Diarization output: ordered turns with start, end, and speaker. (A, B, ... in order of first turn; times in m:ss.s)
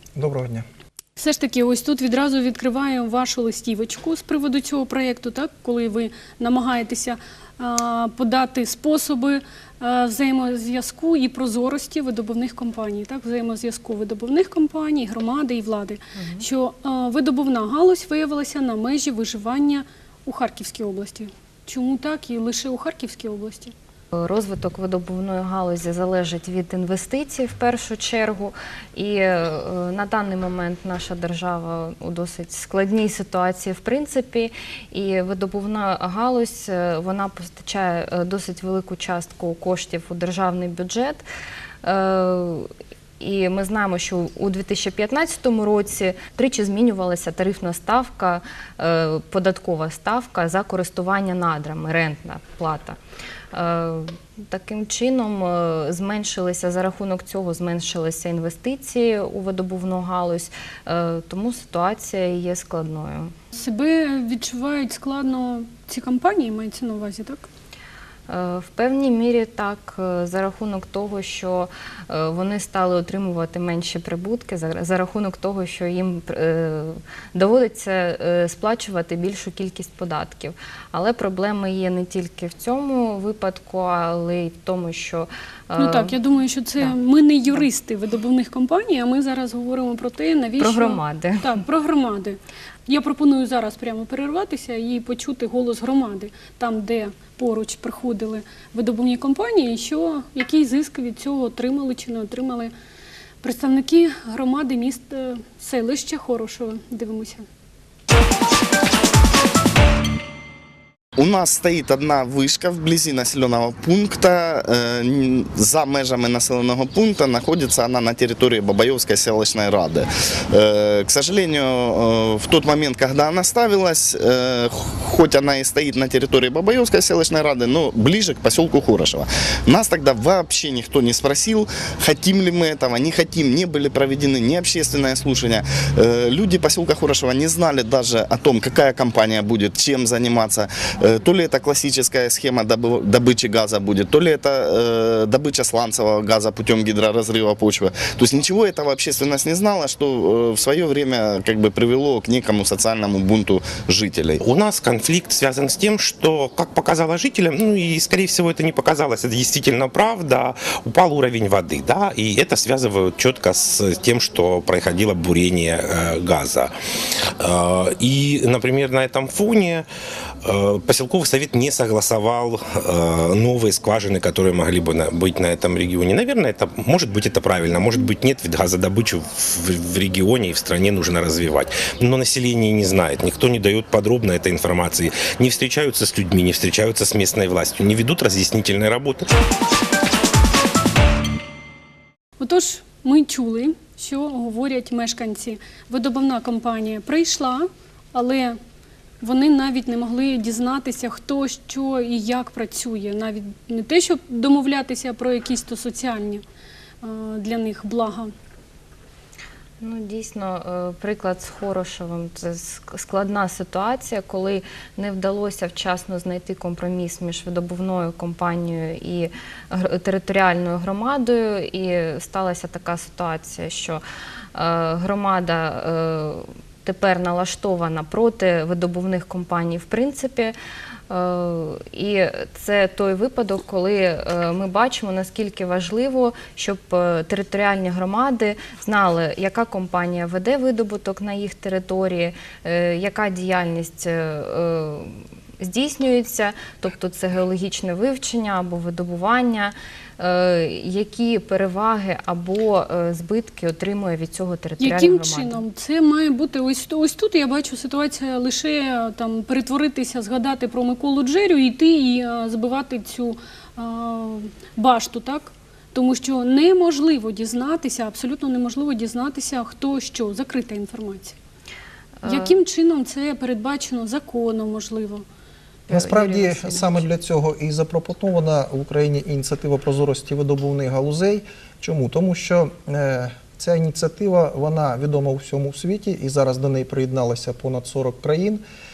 0:00.2-0:00.6 A
0:01.2-0:23.7 B
0:16.2-0:16.4 C
0:24.2-0:41.2 C
0:41.8-0:42.7 C
0:43.2-0:53.0 C
0:53.5-1:03.3 C
1:03.5-1:07.5 B
1:08.3-1:26.2 C
1:25.8-1:42.7 B
1:30.6-1:31.6 C
1:43.4-1:47.5 B
1:51.2-2:34.4 D
2:34.4-2:46.7 E
2:47.4-2:49.8 E
2:50.4-3:09.3 E
3:12.4-3:18.6 B
3:19.2-3:26.4 B
3:27.0-3:28.3 B
3:29.8-3:44.0 C
3:44.6-3:50.6 C
3:51.1-4:15.6 C
4:14.8-4:31.4 B
4:32.2-4:32.6 C
4:32.2-4:35.2 B
4:35.9-4:37.0 C
4:35.9-4:48.6 A